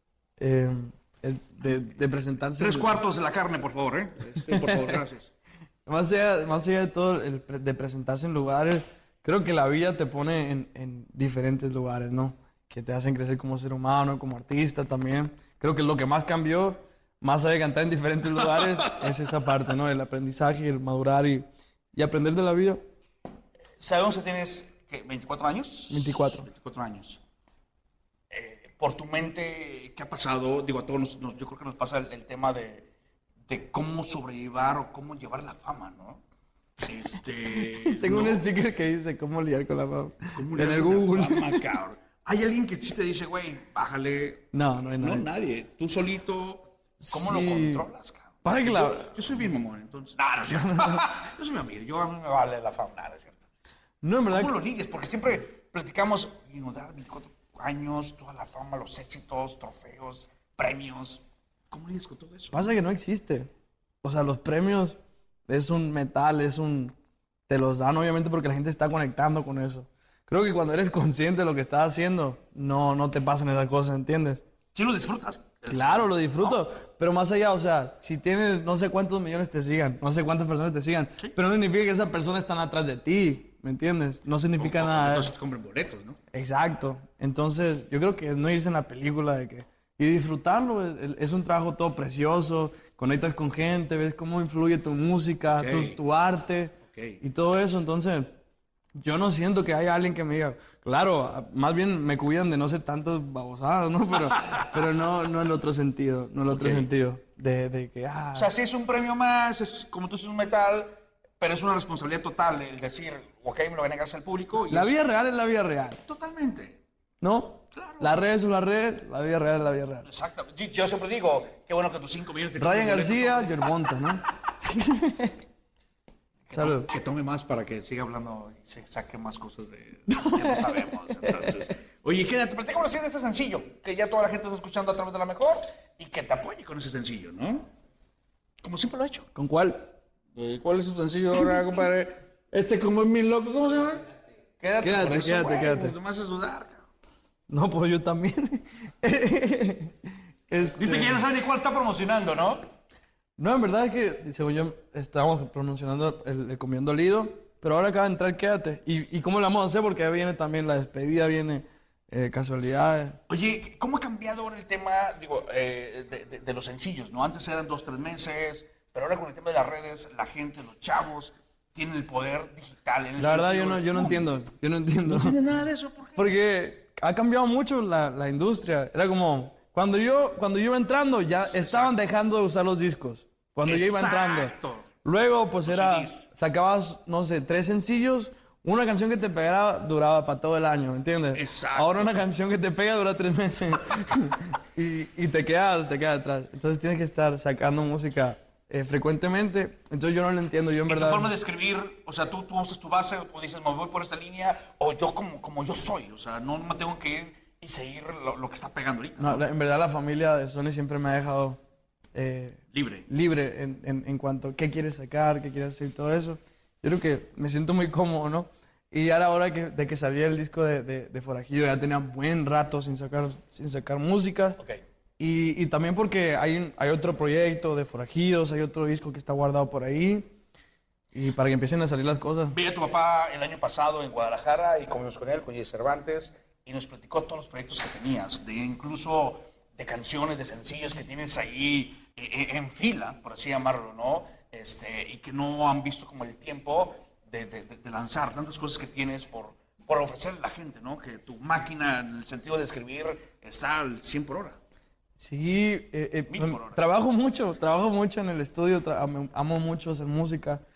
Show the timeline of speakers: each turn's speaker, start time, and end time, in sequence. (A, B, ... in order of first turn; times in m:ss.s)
0:00.4-0:03.0 A
0:02.6-0:05.3 B
0:04.5-0:05.0 A
0:05.9-0:22.8 A
0:23.8-0:27.2 B
0:25.9-0:26.5 A
0:28.3-0:32.9 B
0:33.5-0:36.2 B
0:36.8-0:38.4 B
0:37.7-0:41.6 A
0:40.4-0:44.5 B
0:44.5-0:45.3 A
0:45.0-0:53.4 B
0:47.0-0:47.9 A
0:48.4-0:49.1 A
0:50.5-0:51.0 A
0:54.0-0:54.6 A
0:54.3-1:02.7 B
1:02.5-1:03.5 A
1:04.0-1:05.0 A
1:05.5-1:06.9 A
1:07.5-1:14.4 A
1:14.8-1:16.6 B
1:15.7-1:25.3 A
1:24.6-1:26.2 B
1:26.3-1:38.4 A
1:35.6-1:36.0 B
1:36.9-1:37.2 B
1:39.0-1:48.5 A
1:44.4-1:44.7 B
1:46.5-1:46.9 B
1:48.4-1:55.0 B
1:54.7-1:56.0 A
1:56.1-1:56.8 B
1:57.2-2:00.1 A
1:57.7-1:58.2 B
2:00.0-2:03.6 B
2:02.6-2:05.4 A
2:06.5-2:17.7 B
2:06.5-2:06.9 A
2:10.1-2:11.7 A
2:18.6-2:19.3 B
2:19.4-2:19.9 A
2:20.4-2:24.0 B
2:24.6-2:26.8 B
2:24.8-2:26.0 A
2:27.5-2:30.0 A
2:30.5-2:31.2 A
2:30.8-2:32.7 B
2:33.4-2:43.2 A
2:43.3-2:54.3 B
2:53.2-2:55.4 A
2:55.1-2:56.3 B
2:56.2-3:21.3 A
3:01.4-3:02.0 B
3:03.6-3:04.9 B
3:05.6-3:06.3 B
3:11.3-3:12.1 B
3:20.9-3:29.4 B
3:29.2-3:31.6 A
3:32.1-3:44.6 A
3:32.7-3:33.1 B
3:45.2-3:50.3 A
3:51.1-3:52.6 A
3:52.5-4:14.6 B
4:15.2-4:20.6 A
4:16.3-4:16.8 B